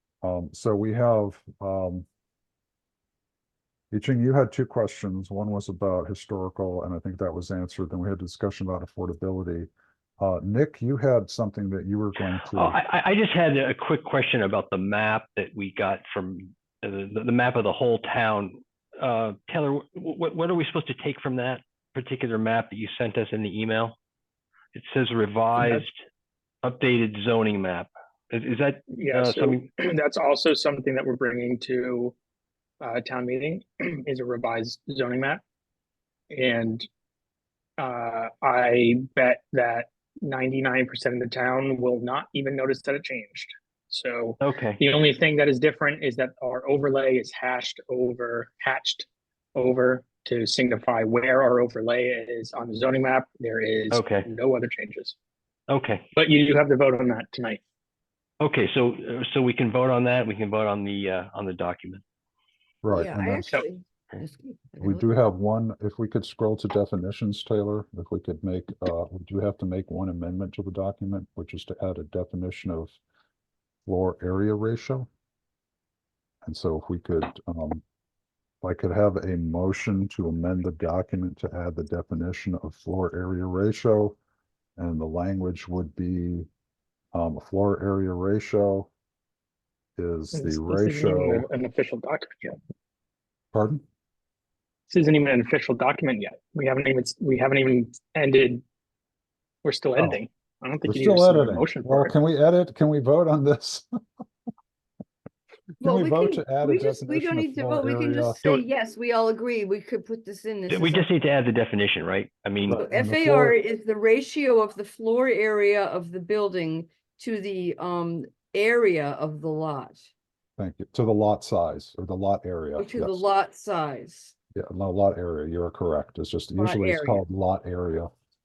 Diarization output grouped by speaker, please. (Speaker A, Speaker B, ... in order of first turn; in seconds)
Speaker A: 0.2-2.0, 3.9-12.8, 62.8-63.6, 64.8-73.0, 73.8-75.1, 76.4-77.8, 78.6-84.2, 84.8-86.5, 87.1-88.9, 90.0-91.5, 93.5-93.8, 100.9-103.8, 105.8-108.4, 112.6-113.6, 120.6-123.2, 124.5-128.1
Speaker B: 12.6-23.9, 24.7-25.9, 26.6-29.6, 44.4-44.8, 53.9-54.2, 55.7-56.0, 58.4-62.0, 110.7-112.7
Speaker C: 25.6-25.8, 28.9-32.1, 32.8-35.4, 36.3-36.9, 37.8-55.1, 56.1-57.6, 90.3-92.5, 94.9-98.6, 99.6-102.1
Speaker D: 62.9-65.1, 105.8-111.1, 112.7-120.1, 122.8-124.3, 126.5-127.2